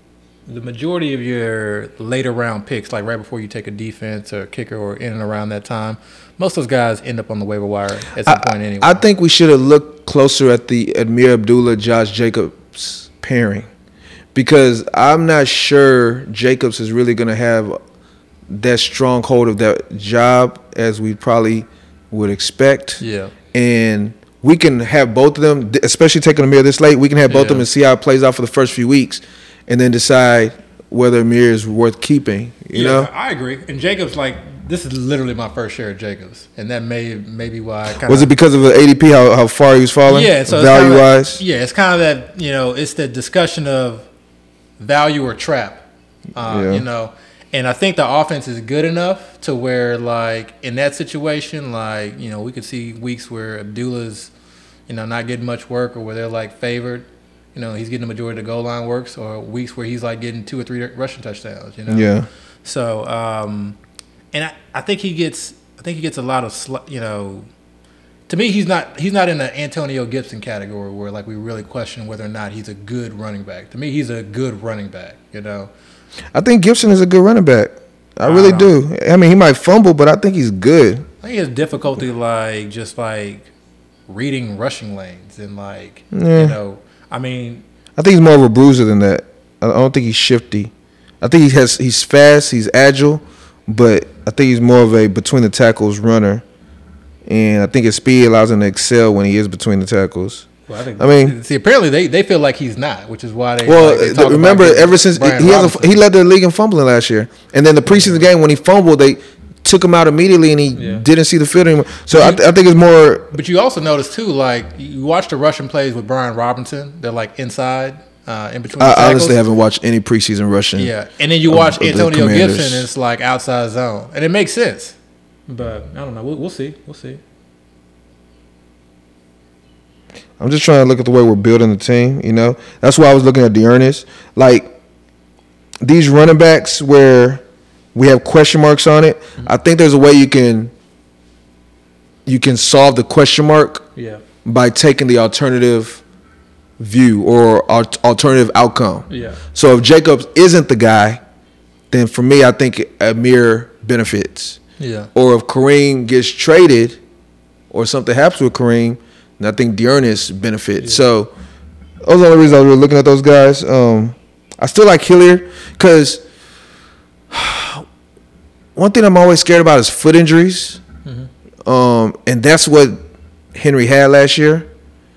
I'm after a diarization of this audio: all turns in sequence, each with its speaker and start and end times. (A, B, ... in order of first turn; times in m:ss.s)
0:00.5-0:09.0 A
0:08.2-0:13.7 B
0:14.3-0:17.8 B
0:18.5-0:23.0 B
0:23.0-0:23.3 A
0:23.5-0:33.1 B
0:27.3-0:27.6 A
0:32.7-0:38.3 A
0:38.0-0:41.4 B
0:40.1-0:44.0 A
0:44.8-0:54.3 A
0:46.4-0:46.8 B
0:54.9-1:02.1 A
1:01.9-1:02.3 B
1:02.6-1:03.8 A
1:04.3-1:07.5 A
1:08.3-1:15.7 A
1:16.3-1:21.0 B
1:18.2-1:18.7 A
1:21.2-1:23.5 A
1:24.1-1:27.6 A
1:26.1-1:26.6 B
1:28.0-1:36.4 B
1:37.2-1:41.4 B
1:40.7-1:46.0 A
1:43.6-1:53.3 B
1:47.8-1:48.2 A
1:50.7-1:51.0 A
1:52.1-1:52.4 A
1:53.3-1:59.4 A
1:58.8-2:00.9 B
2:00.8-2:05.0 A
2:01.5-2:02.9 B
2:05.5-2:07.2 A
2:10.4-2:14.7 B
2:15.8-2:17.4 B
2:17.9-2:20.7 B
2:22.2-2:23.8 B
2:24.0-2:24.2 A
2:24.4-2:26.0 B
2:26.8-2:31.2 B
2:29.1-2:29.4 A
2:31.9-2:34.6 B
2:34.8-2:35.1 A
2:35.1-2:37.0 B
2:37.7-2:41.3 B
2:42.0-2:46.2 B
2:47.3-2:47.8 B
2:48.8-2:50.8 B
2:51.6-2:53.0 B
2:53.5-2:54.7 B